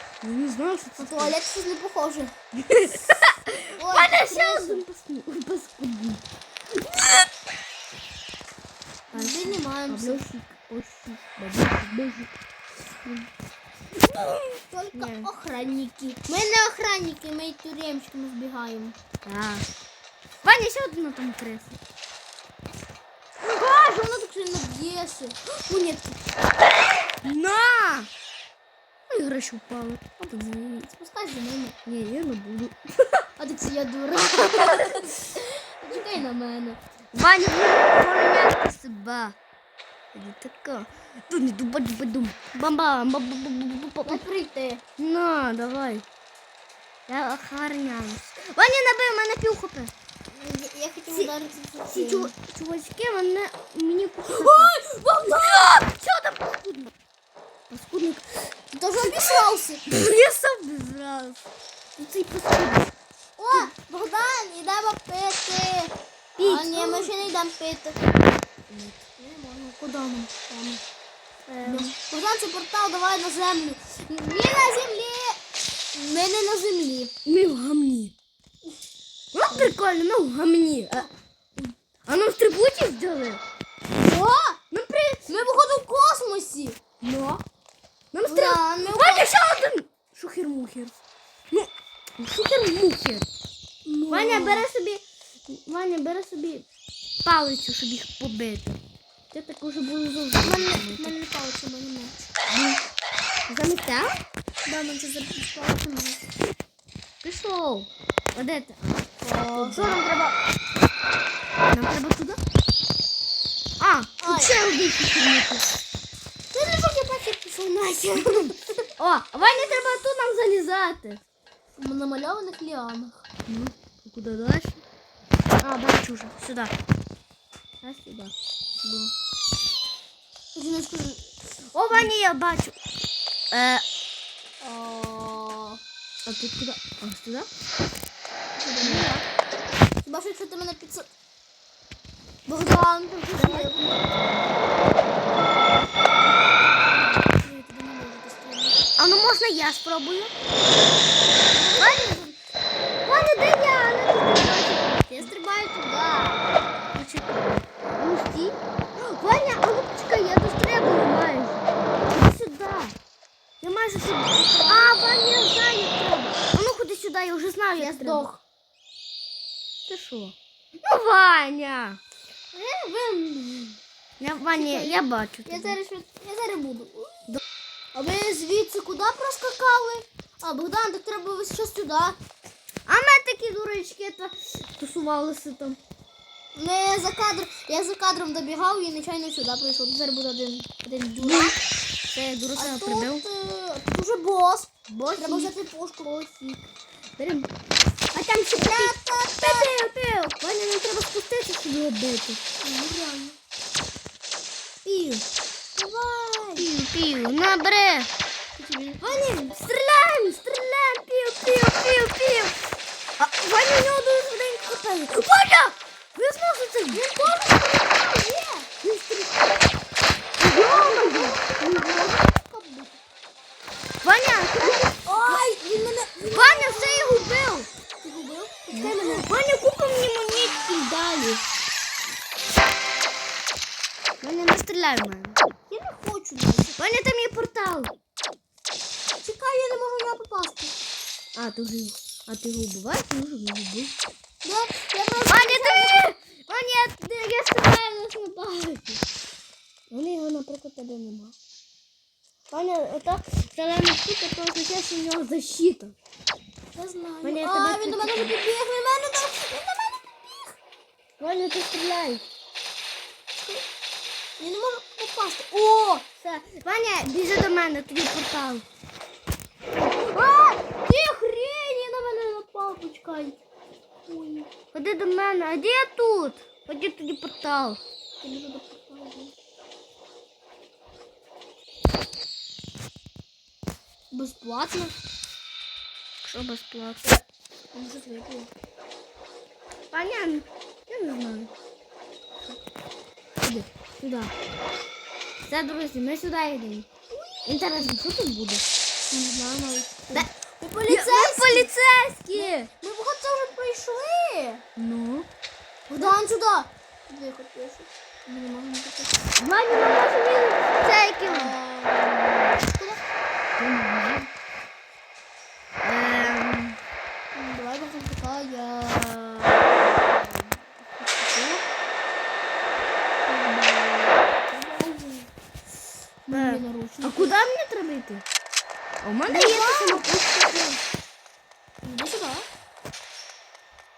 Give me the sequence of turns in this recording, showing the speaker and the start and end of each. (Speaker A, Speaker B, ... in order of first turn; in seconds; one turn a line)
Speaker A: 0.2-1.4
Speaker B: 1.0-2.3
Speaker A: 2.6-6.2
Speaker B: 3.8-4.8
Speaker A: 6.8-7.3
Speaker B: 9.1-10.2
Speaker A: 9.1-12.3
Speaker B: 14.6-19.0
Speaker A: 14.9-15.3
Speaker A: 19.2-19.7
Speaker A: 20.4-21.8
Speaker B: 23.4-26.2
Speaker A: 27.2-28.1
Speaker A: 29.1-30.9
Speaker B: 30.2-31.8
Speaker A: 31.9-33.3
Speaker B: 33.4-36.8
Speaker A: 37.1-39.4
Speaker A: 40.1-44.2
Speaker B: 44.0-44.8
Speaker A: 45.0-46.1
Speaker A: 47.1-49.9
Speaker B: 50.3-52.3
Speaker A: 51.9-56.9
Speaker B: 54.3-55.6
Speaker A: 57.7-61.4
Speaker B: 58.7-59.8
Speaker A: 62.0-62.9
Speaker B: 63.4-68.0
Speaker A: 66.4-67.1
Speaker A: 68.7-69.0
Speaker B: 69.2-70.8
Speaker B: 71.5-75.4
Speaker A: 71.6-71.9
Speaker B: 75.9-77.1
Speaker A: 77.2-78.1
Speaker A: 79.3-81.1
Speaker A: 82.1-83.4
Speaker B: 83.9-84.6
Speaker A: 84.7-85.3
Speaker B: 85.3-86.8
Speaker A: 87.0-87.4
Speaker A: 88.1-91.0
Speaker B: 88.2-89.3
Speaker A: 91.5-93.3
Speaker B: 93.9-94.7
Speaker A: 94.1-96.7
Speaker A: 97.2-98.8
Speaker A: 99.3-101.2
Speaker B: 100.4-102.2
Speaker A: 102.5-102.8
Speaker A: 103.5-104.2
Speaker B: 104.7-106.2
Speaker A: 107.2-110.4
Speaker B: 109.2-110.0
Speaker A: 111.7-112.4
Speaker A: 113.8-115.7
Speaker B: 114.2-114.5
Speaker B: 116.5-118.6
Speaker A: 118.2-121.2
Speaker B: 119.5-120.0
Speaker B: 121.8-123.2
Speaker A: 123.5-124.8
Speaker A: 125.6-126.7
Speaker A: 127.8-128.3
Speaker B: 128.8-129.1
Speaker B: 130.6-131.3
Speaker A: 131.7-132.8
Speaker A: 133.5-133.8
Speaker B: 134.6-135.8
Speaker A: 136.3-137.5
Speaker B: 138.6-139.3
Speaker A: 138.8-139.1
Speaker B: 140.1-141.1
Speaker B: 142.5-144.3
Speaker A: 143.3-143.9
Speaker B: 145.3-148.8
Speaker A: 149.0-150.3
Speaker B: 151.5-152.4
Speaker A: 151.8-152.1
Speaker A: 153.1-155.3
Speaker B: 155.1-156.4
Speaker A: 156.9-162.9
Speaker A: 163.6-165.7
Speaker B: 164.4-166.4
Speaker A: 166.5-168.3
Speaker B: 167.8-168.4
Speaker A: 169.9-172.0
Speaker B: 172.5-173.8
Speaker A: 174.2-175.8
Speaker B: 174.6-177.3
Speaker B: 177.9-182.2
Speaker A: 182.9-185.8
Speaker B: 186.6-191.6
Speaker A: 191.2-191.6
Speaker A: 192.1-193.2
Speaker B: 192.6-196.7
Speaker A: 194.9-195.5
Speaker A: 197.2-197.5
Speaker A: 198.1-202.4
Speaker B: 198.5-199.7
Speaker B: 202.6-203.4
Speaker A: 204.8-205.2
Speaker B: 205.8-206.7
Speaker A: 206.6-208.1
Speaker B: 208.6-209.6
Speaker A: 209.0-212.6
Speaker A: 213.2-217.1
Speaker B: 216.9-218.7
Speaker A: 218.8-219.7
Speaker A: 220.4-222.0
Speaker B: 220.5-223.0
Speaker A: 224.0-225.4
Speaker B: 224.6-227.4
Speaker A: 226.3-227.7
Speaker B: 228.0-229.3
Speaker A: 228.7-231.4
Speaker A: 234.2-235.4
Speaker B: 235.7-236.8
Speaker A: 236.8-237.9
Speaker B: 239.2-240.8
Speaker A: 241.4-243.9
Speaker B: 244.4-246.1
Speaker A: 245.3-249.0
Speaker A: 249.9-251.3
Speaker A: 252.5-255.9
Speaker B: 256.7-260.6
Speaker A: 257.2-258.4
Speaker A: 261.2-262.2
Speaker B: 263.4-263.7
Speaker B: 264.4-266.1
Speaker A: 266.2-268.6
Speaker B: 269.8-273.4
Speaker B: 274.1-274.5
Speaker A: 274.7-277.8
Speaker B: 278.2-279.3
Speaker B: 284.1-284.9
Speaker A: 286.2-287.2
Speaker B: 287.7-288.5
Speaker A: 289.9-291.5
Speaker A: 293.4-294.3
Speaker A: 295.4-296.9
Speaker B: 297.1-297.9
Speaker A: 297.4-298.6
Speaker B: 299.1-301.7
Speaker A: 300.9-302.7
Speaker B: 302.3-304.6
Speaker A: 304.8-305.3
Speaker A: 305.9-306.1
Speaker B: 305.9-310.0
Speaker A: 309.4-311.6
Speaker B: 311.2-313.0
Speaker A: 313.6-314.3
Speaker A: 315.8-316.8
Speaker B: 316.0-316.4
Speaker B: 317.4-321.6
Speaker B: 323.2-325.3
Speaker B: 326.3-327.4
Speaker A: 326.3-328.2
Speaker A: 329.0-330.8
Speaker B: 329.3-330.1
Speaker B: 331.8-332.5